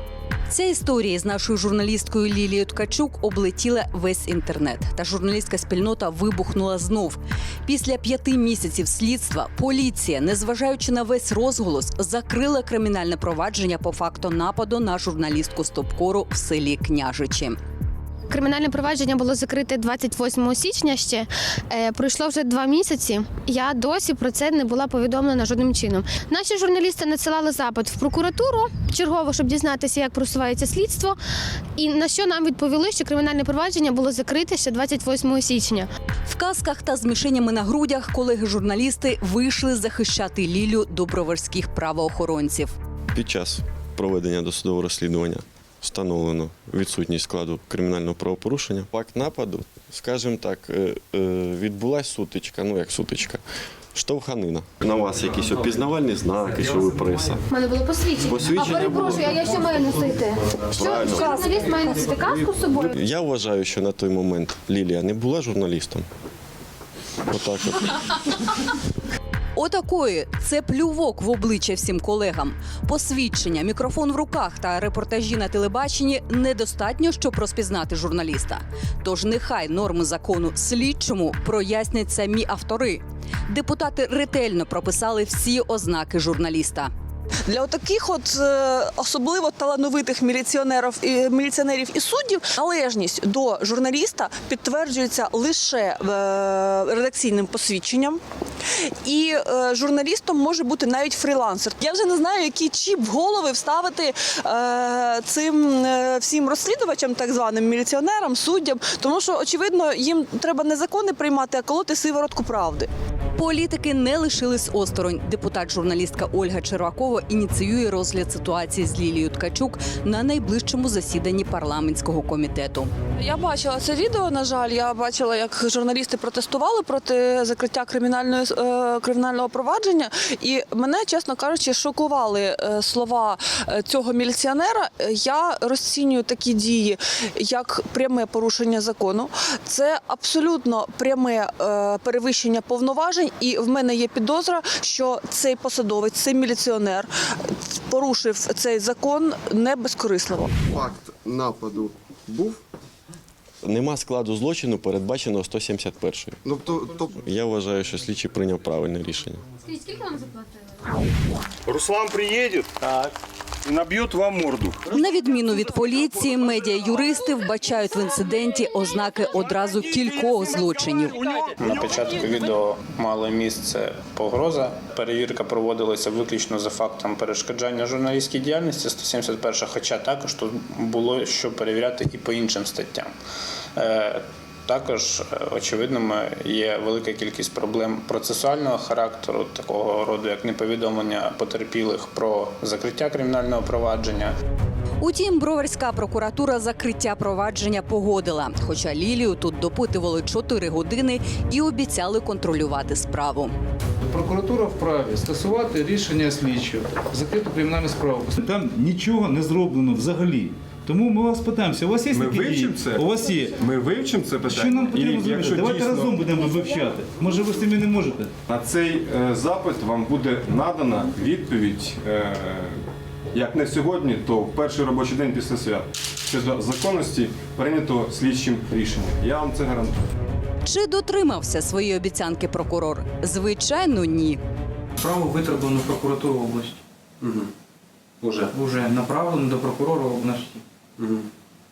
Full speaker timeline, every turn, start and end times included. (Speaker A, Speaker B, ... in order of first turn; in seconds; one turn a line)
Speaker A: 0.5-17.6
Speaker B: 18.3-31.2
Speaker B: 31.8-35.9
Speaker A: 36.3-42.7
Speaker C: 43.1-53.4
Speaker C: 53.9-57.4
Speaker B: 57.5-62.9
Speaker C: 58.2-59.8
Speaker C: 60.6-61.5
Speaker C: 62.8-66.1
Speaker C: 67.3-68.0
Speaker A: 69.6-86.9
Speaker D: 87.5-98.2
Speaker D: 99.0-112.9
Speaker A: 113.4-122.9
Speaker D: 123.2-147.1
Speaker D: 147.7-150.7
Speaker E: 150.8-152.6
Speaker C: 153.6-156.4
Speaker E: 156.5-157.1
Speaker C: 157.1-159.4
Speaker A: 164.9-171.3
Speaker F: 171.5-183.1
Speaker F: 183.8-194.3
Speaker A: 195.0-203.5
Speaker G: 204.1-208.3
Speaker H: 206.4-206.7
Speaker I: 208.4-213.6
Speaker J: 212.1-216.2
Speaker I: 214.5-218.3
Speaker J: 218.5-222.8
Speaker J: 223.3-230.1
Speaker A: 230.6-234.4
Speaker H: 235.0-236.8
Speaker H: 238.5-240.6